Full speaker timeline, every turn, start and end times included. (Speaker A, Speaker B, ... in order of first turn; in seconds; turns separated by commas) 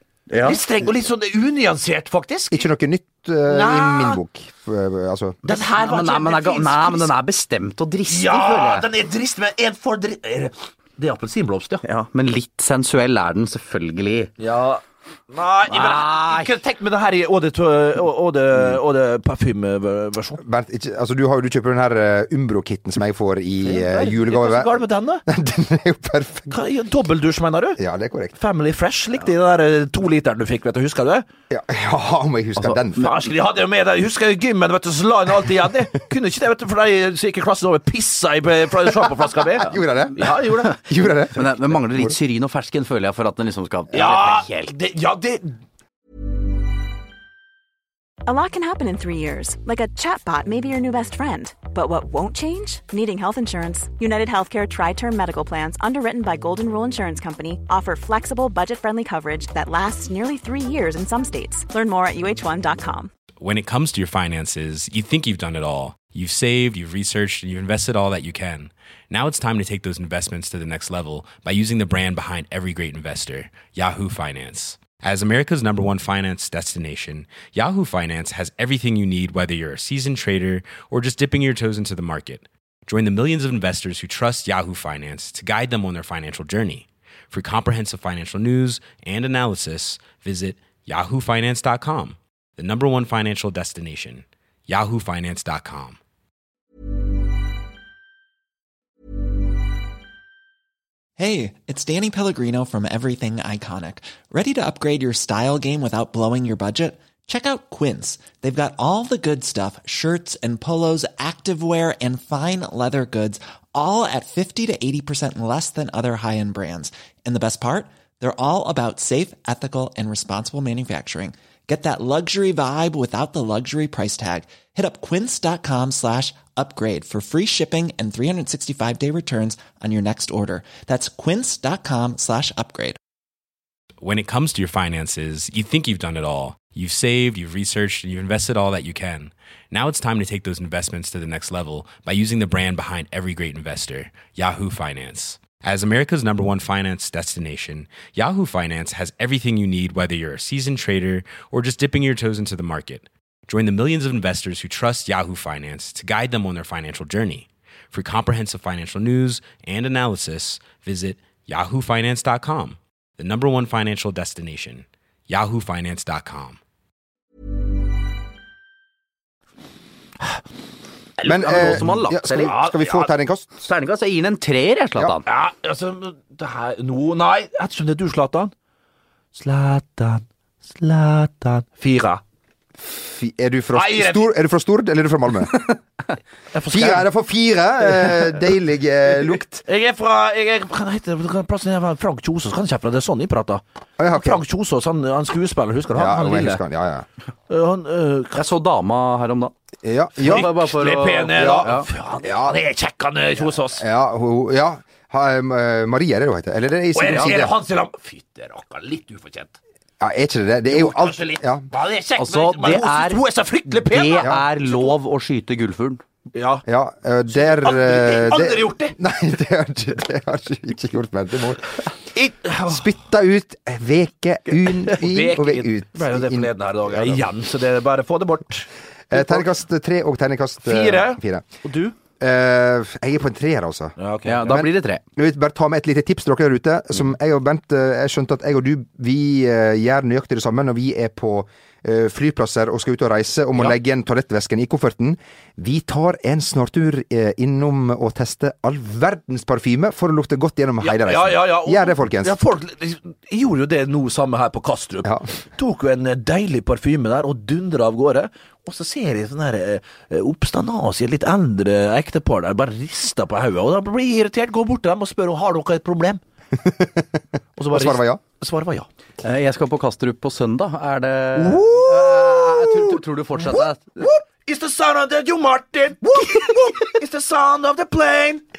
Speaker A: 0.3-0.6, Speaker B: 0.4-2.7, Speaker C: 2.5-5.4, Speaker B: 3.5-4.2, Speaker B: 5.5-7.1, Speaker A: 5.5-8.9, Speaker B: 8.1-11.8, Speaker A: 11.8-14.3, Speaker B: 14.4-20.4, Speaker A: 15.7-16.5, Speaker C: 20.4-26.6, Speaker B: 23.6-25.2, Speaker B: 26.5-27.8, Speaker C: 27.8-28.3, Speaker B: 28.4-31.3, Speaker C: 31.5-33.1, Speaker B: 33.0-40.8, Speaker C: 39.6-42.1, Speaker A: 41.3-44.7, Speaker B: 43.9-45.6, Speaker D: 48.3-63.1, Speaker E: 63.4-96.0, Speaker F: 101.2-133.0, Speaker E: 134.0-166.6, Speaker B: 171.2-173.1, Speaker A: 171.2-172.6, Speaker C: 171.3-173.6, Speaker A: 173.6-175.2, Speaker B: 175.3-178.5, Speaker B: 179.3-182.2, Speaker C: 182.8-185.8, Speaker B: 183.7-184.3, Speaker B: 186.5-187.1, Speaker C: 186.7-189.6, Speaker B: 189.7-196.6, Speaker C: 194.0-194.4, Speaker C: 195.9-197.1, Speaker B: 197.5-198.4, Speaker A: 198.3-199.5, Speaker C: 199.8-200.5, Speaker A: 200.2-201.9, Speaker B: 200.2-203.8, Speaker C: 201.3-202.6, Speaker C: 203.8-207.5, Speaker B: 206.9-209.6, Speaker C: 210.0-211.7, Speaker B: 210.7-214.9, Speaker A: 212.2-216.0, Speaker B: 216.3-216.7, Speaker C: 216.7-221.7, Speaker B: 217.3-219.0, Speaker B: 222.2-222.9, Speaker C: 222.7-227.2, Speaker B: 224.9-229.5, Speaker C: 229.1-231.4, Speaker B: 230.6-231.9, Speaker C: 232.2-233.9, Speaker B: 234.0-234.7, Speaker A: 234.3-235.0, Speaker C: 234.5-252.4, Speaker B: 250.8-266.2, Speaker C: 266.6-267.1, Speaker B: 267.6-268.9, Speaker C: 267.7-268.2, Speaker A: 269.2-274.1, Speaker B: 271.4-278.4